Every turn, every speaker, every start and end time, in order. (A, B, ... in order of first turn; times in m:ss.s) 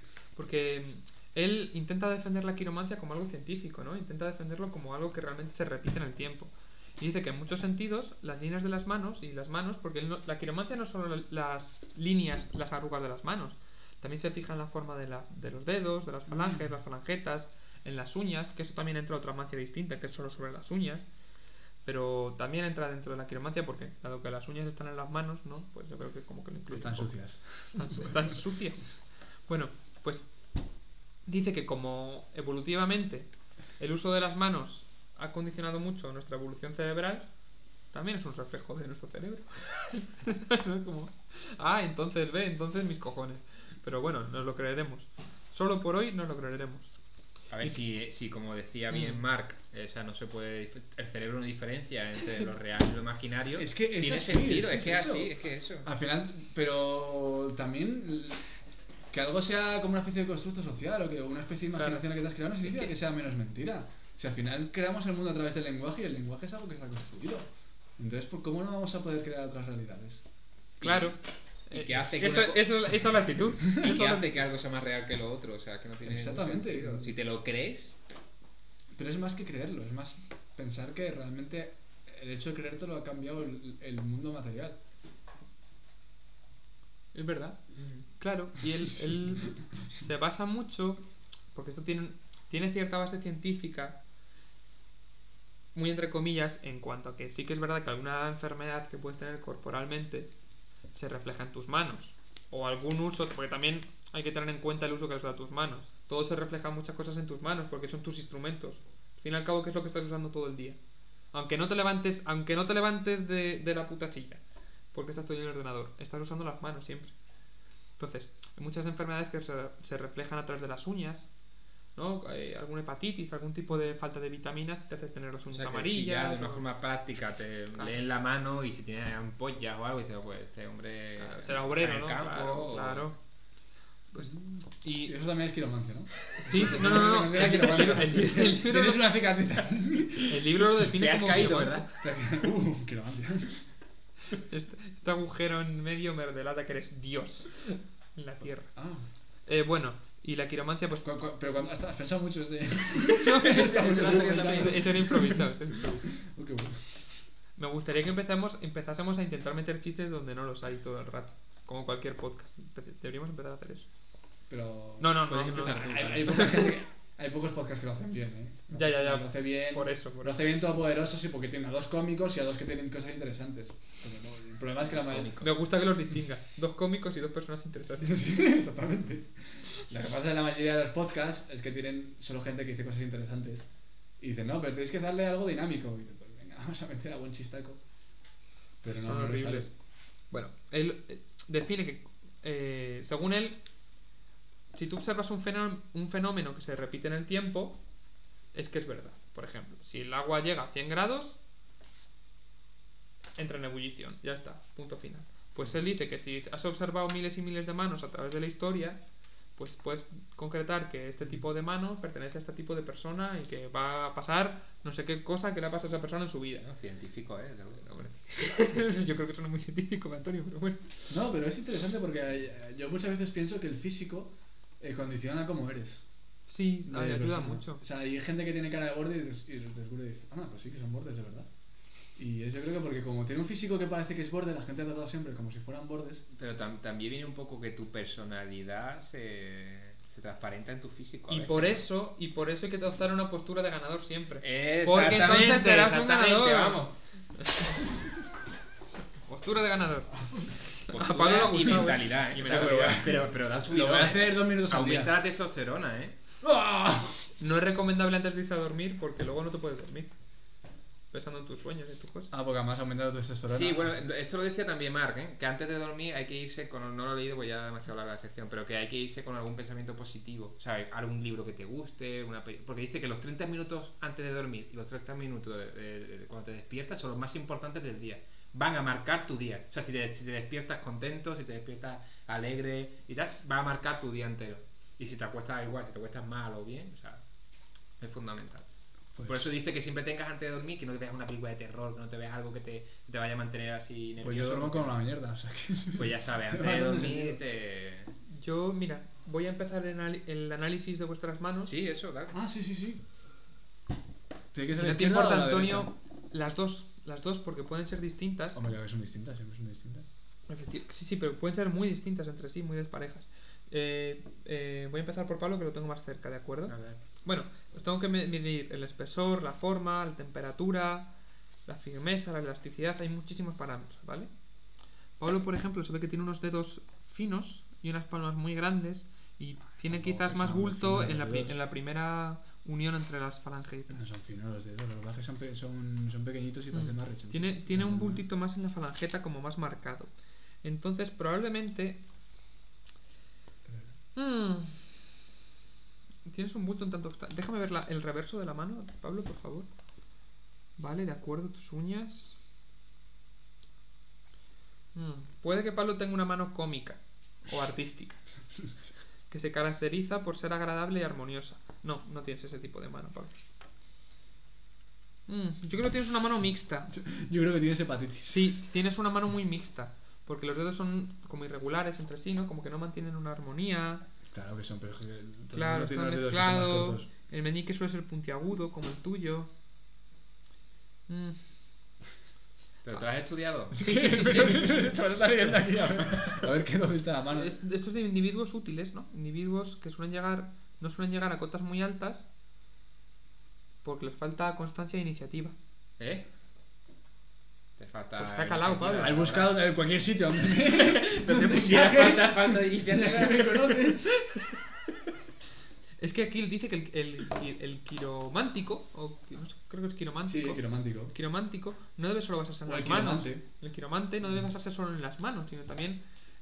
0:00.4-0:21.0 A
0:16.3-0:16.7 B
0:21.8-0:27.1 A
0:26.7-0:28.4 B
0:27.7-0:30.3 A
0:31.3-0:37.3 A
0:37.9-0:46.9 A
0:47.5-0:55.9 C
0:48.9-0:49.2 A
0:53.6-0:58.5 B
0:59.1-1:10.2 B
1:01.8-1:02.0 A
1:02.6-1:02.9 C
1:10.8-1:11.2 C
1:10.8-1:11.2 A
1:11.7-1:14.3 A
1:11.7-1:13.0 C
1:13.6-1:18.0 C
1:16.0-1:17.1 B
1:18.9-1:24.8 B
1:27.2-1:27.6 B
1:28.2-1:31.0 A
1:31.5-1:34.0 A
1:35.7-1:40.3 A
1:40.9-1:50.8 A
1:51.3-1:54.4 A
1:54.9-1:57.1 A
1:58.0-2:01.3 A
2:02.0-2:06.6 A
2:05.5-2:13.1 C
2:11.2-2:13.2 A
2:14.1-2:15.2 A
2:14.2-2:20.4 B
2:16.4-2:19.2 A
2:20.2-2:21.9 A
2:20.8-2:21.9 C
2:22.0-2:23.6 B
2:24.3-2:28.7 A
2:28.8-2:29.1 B
2:29.5-2:31.1 A
2:31.0-2:35.5 B
2:33.1-2:36.1 A
2:33.4-2:35.0 C
2:36.2-2:36.8 B
2:37.6-2:43.9 A
2:44.5-2:55.4 B
2:45.0-2:46.8 A
2:45.4-2:46.4 C
2:48.7-2:50.4 A
2:55.0-2:55.5 C
2:55.4-2:58.2 A
2:58.0-3:03.7 B
3:04.2-3:07.8 B
3:08.8-3:09.7 B
3:08.9-3:09.7 A
3:10.3-3:13.6 A
3:14.7-3:17.8 A
3:18.5-3:21.4 A
3:23.4-3:29.0 A
3:29.6-3:36.7 A
3:36.6-3:38.2 C
3:38.3-3:40.9 A
3:41.1-3:46.0 B
3:46.5-3:47.8 A
3:46.8-3:51.5 B
3:52.2-3:56.2 B
3:56.3-4:01.8 C
4:01.3-4:07.6 A
4:04.4-4:06.9 C
4:09.3-4:10.2 A
4:10.8-4:13.0 A
4:10.9-4:16.2 C
4:12.4-4:15.2 B
4:16.4-4:17.2 B
4:17.4-4:20.1 A
4:21.1-4:22.3 A
4:22.3-4:24.0 B
4:23.5-4:47.2 C
4:48.0-4:48.7 C
4:49.2-4:49.4 B
4:49.2-4:55.0 C
4:54.2-4:57.4 B
4:56.0-4:58.1 C
4:58.3-5:01.7 A
5:01.7-5:02.4 C
5:02.3-5:03.0 B
5:04.5-5:05.9 B
5:04.8-5:08.6 A
5:08.6-5:10.0 B
5:10.5-5:21.1 A
5:16.7-5:17.0 C
5:21.7-5:24.3 A
5:25.2-5:34.0 A
5:29.8-5:31.6 B
5:33.9-5:38.2 B
5:36.7-5:40.1 A
5:40.6-5:42.0 A
5:43.7-5:43.9 B
5:44.2-5:44.8 A
5:46.2-5:49.7 A
5:50.8-5:52.4 A
5:54.9-5:58.2 A
5:59.3-6:03.4 A
6:05.3-6:06.9 A
6:06.9-6:08.6 B
6:08.3-6:14.0 A
6:14.3-6:17.1 B
6:15.5-6:19.5 A
6:21.1-6:21.4 A
6:22.8-6:23.8 C
6:23.7-6:27.6 B
6:23.7-6:24.9 A
6:27.3-6:32.3 A
6:33.8-6:35.6 A
6:36.0-6:36.3 C
6:37.8-6:39.7 C
6:38.2-6:39.2 A
6:39.0-6:44.3 B
6:40.7-6:44.0 C
6:46.0-6:56.0 A
6:50.2-6:51.1 B
6:52.7-6:53.4 B